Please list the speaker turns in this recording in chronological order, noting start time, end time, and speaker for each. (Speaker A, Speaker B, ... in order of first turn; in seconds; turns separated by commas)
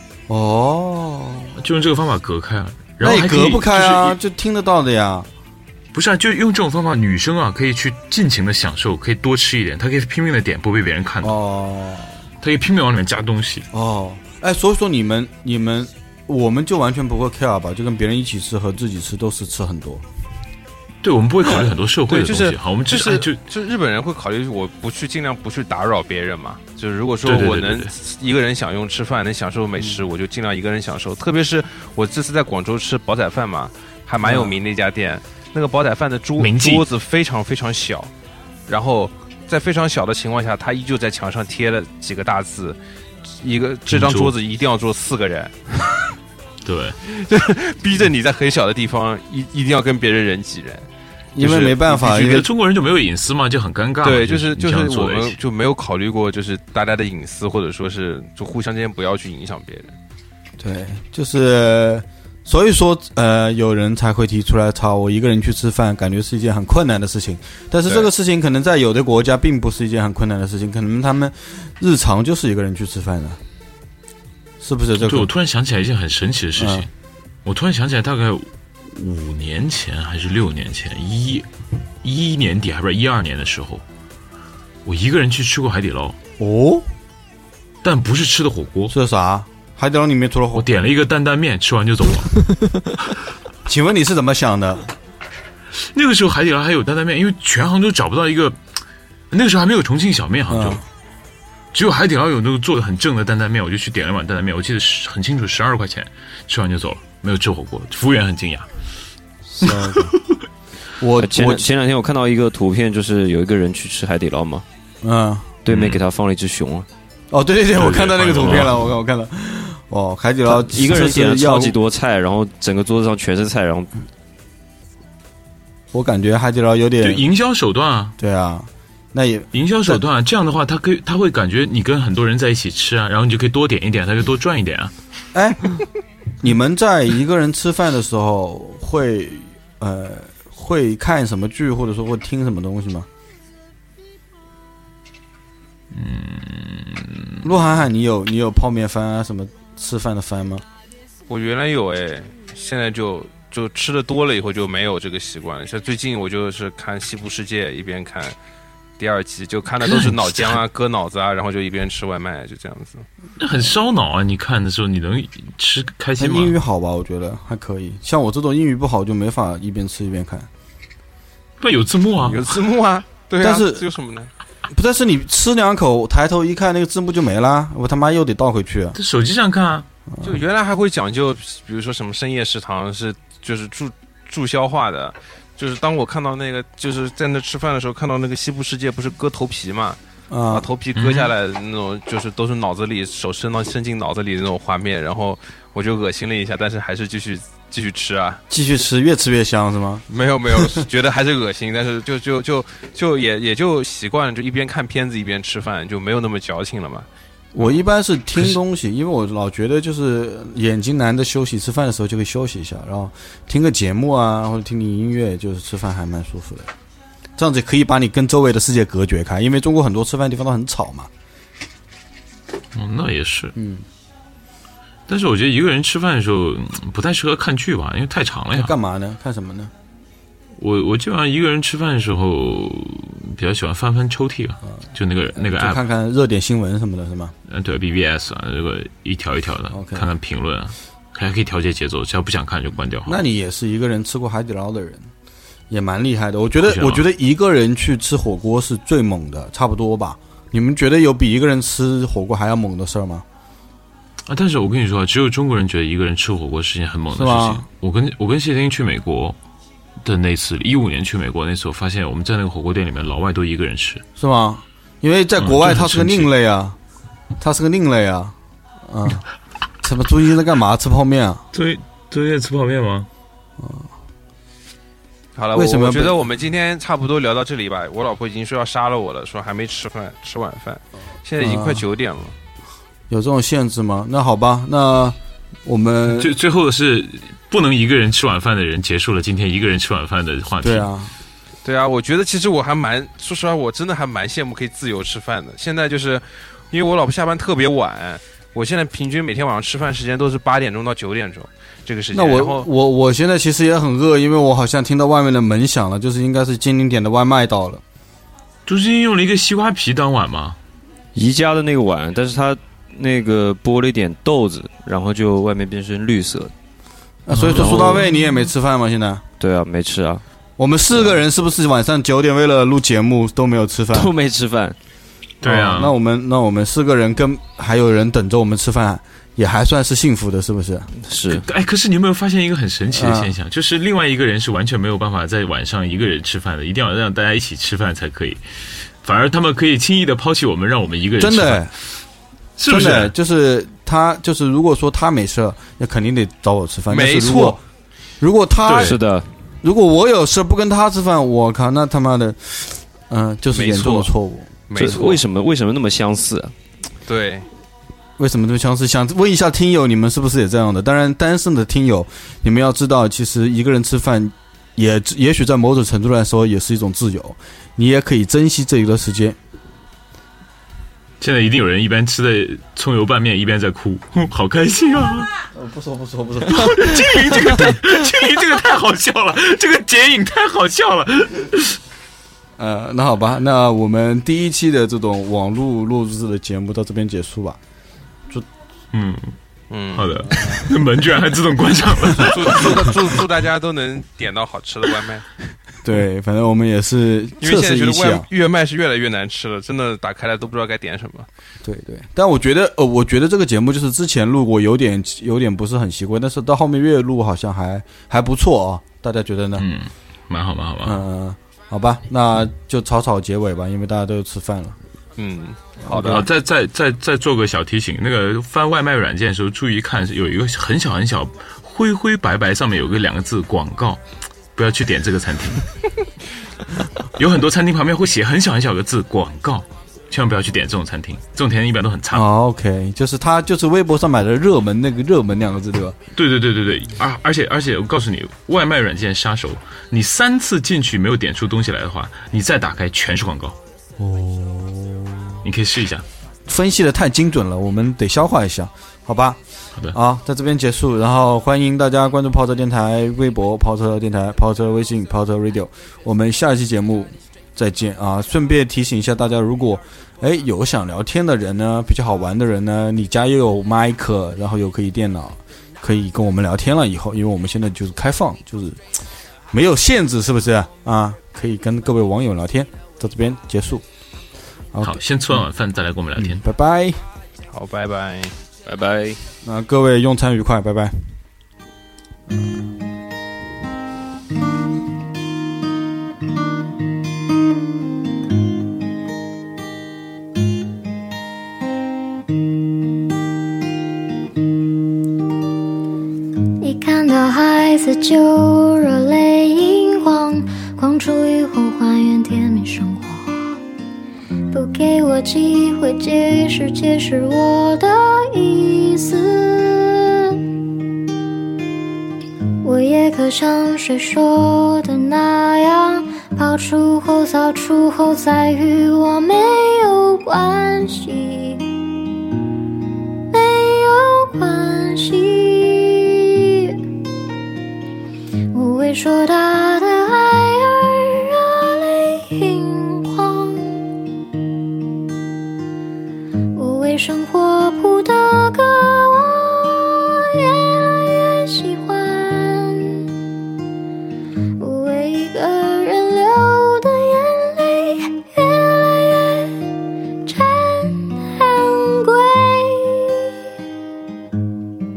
Speaker A: 0.3-1.6, Speaker B: 1.6-4.2, Speaker A: 3.0-5.3, Speaker B: 5.9-11.4, Speaker A: 11.2-12.2, Speaker B: 12.4-13.7, Speaker A: 13.7-20.0, Speaker B: 21.0-23.4, Speaker C: 22.1-38.1, Speaker B: 27.2-27.9, Speaker A: 34.2-34.6, Speaker B: 36.4-36.9, Speaker C: 38.7-42.8, Speaker C: 43.4-46.0, Speaker B: 43.9-44.4, Speaker B: 46.6-47.0, Speaker C: 47.1-50.9, Speaker A: 51.4-52.5, Speaker C: 51.4-51.8, Speaker B: 51.8-55.4, Speaker C: 54.0-60.0, Speaker A: 60.6-73.4, Speaker A: 74.6-75.3, Speaker B: 75.0-76.9, Speaker A: 76.6-76.9, Speaker B: 77.5-81.5, Speaker B: 82.0-83.8, Speaker B: 84.8-86.2, Speaker A: 86.4-86.9, Speaker B: 87.8-88.9, Speaker A: 88.9-90.7, Speaker B: 90.5-92.4, Speaker A: 93.7-94.9, Speaker B: 95.8-98.6, Speaker B: 99.3-100.8, Speaker A: 100.5-100.8, Speaker B: 101.7-108.7, Speaker A: 109.6-110.2, Speaker B: 109.6-110.2, Speaker A: 111.0-111.7, Speaker D: 111.2-114.7, Speaker A: 115.0-115.5, Speaker D: 115.7-116.9, Speaker B: 115.7-116.0, Speaker A: 117.3-121.8, Speaker B: 117.8-118.9, Speaker D: 120.5-123.9, Speaker A: 125.9-127.2, Speaker B: 127.0-128.2, Speaker A: 128.2-130.0, Speaker B: 129.5-134.9, Speaker A: 135.3-135.8, Speaker A: 136.4-143.1, Speaker B: 145.9-147.5, Speaker A: 147.4-150.7, Speaker C: 151.3-158.3, Speaker C: 159.0-163.1, Speaker B: 159.8-160.6, Speaker B: 163.4-166.6, Speaker A: 166.2-170.5, Speaker B: 171.6-172.6, Speaker C: 172.2-174.3, Speaker A: 173.4-173.9, Speaker A: 174.7-179.0, Speaker B: 178.9-179.9, Speaker A: 180.1-180.4, Speaker C: 180.2-190.0, Speaker A: 190.3-190.7, Speaker C: 190.5-198.4, Speaker B: 190.9-191.3, Speaker A: 198.5-200.8, Speaker C: 200.1-207.1, Speaker A: 207.6-216.7, Speaker A: 217.4-221.1, Speaker B: 222.7-223.6, Speaker A: 223.6-223.9, Speaker B: 225.1-228.7, Speaker A: 228.5-229.7, Speaker B: 230.6-235.8, Speaker A: 235.4-237.3, Speaker B: 237.5-243.2, Speaker A: 239.7-240.1, Speaker A: 243.1-245.1, Speaker A: 245.7-253.2, Speaker B: 246.6-247.1, Speaker B: 254.3-259.4, Speaker A: 257.1-257.7, Speaker B: 260.0-264.0, Speaker A: 264.2-266.8, Speaker B: 265.4-266.3, Speaker A: 267.4-269.2, Speaker A: 269.8-271.4, Speaker B: 271.5-273.1, Speaker A: 273.6-273.9, Speaker C: 275.4-282.4, Speaker A: 275.5-276.2, Speaker A: 281.4-281.9, Speaker A: 283.1-286.3, Speaker B: 286.1-290.9, Speaker A: 290.6-291.1, Speaker C: 291.6-302.7, Speaker A: 302.1-307.8, Speaker B: 308.7-310.6, Speaker D: 311.1-316.5, Speaker A: 317.3-319.2, Speaker D: 317.5-318.0, Speaker B: 317.5-317.9, Speaker D: 319.4-320.2, Speaker A: 320.6-324.1, Speaker D: 323.9-324.8, Speaker B: 325.4-325.9, Speaker A: 325.4-330.9, Speaker D: 331.0-331.4, Speaker B: 331.3-338.4, Speaker A: 332.9-333.3, Speaker B: 339.0-341.7, Speaker A: 341.2-341.7, Speaker B: 342.6-343.1, Speaker A: 342.7-347.6, Speaker C: 346.9-347.6, Speaker A: 348.2-349.0, Speaker B: 348.6-349.0, Speaker D: 348.8-349.3, Speaker A: 349.6-354.5, Speaker C: 353.5-354.1, Speaker C: 354.7-355.2, Speaker D: 354.7-356.5, Speaker C: 357.1-357.5, Speaker A: 358.2-369.4, Speaker B: 371.2-375.3, Speaker A: 375.5-377.8, Speaker B: 376.4-381.8, Speaker A: 382.6-387.6, Speaker B: 388.9-389.4, Speaker C: 389.7-390.7, Speaker B: 389.9-393.1, Speaker C: 392.2-395.3, Speaker A: 395.8-398.3, Speaker C: 397.4-401.3, Speaker A: 401.6-409.6, Speaker B: 409.6-411.0, Speaker A: 410.8-414.8, Speaker C: 415.2-416.2, Speaker A: 415.8-416.2, Speaker B: 415.9-424.0, Speaker B: 424.6-425.7, Speaker B: 427.0-432.3, Speaker A: 432.1-436.0, Speaker B: 436.1-443.6, Speaker A: 444.0-445.4, Speaker B: 445.4-446.1, Speaker A: 446.5-449.4, Speaker A: 449.9-468.8, Speaker A: 469.5-473.8, Speaker A: 474.7-475.4, Speaker B: 474.8-476.4, Speaker A: 476.2-477.0, Speaker C: 477.5-478.4, Speaker D: 478.6-479.2, Speaker A: 479.4-480.9, Speaker E: 496.6-503.6, Speaker E: 504.5-510.4, Speaker E: 512.6-521.6, Speaker E: 523.3-526.8, Speaker E: 528.5-533.8, Speaker E: 536.5-543.1, Speaker E: 544.6-549.7, Speaker E: 550.2-553.4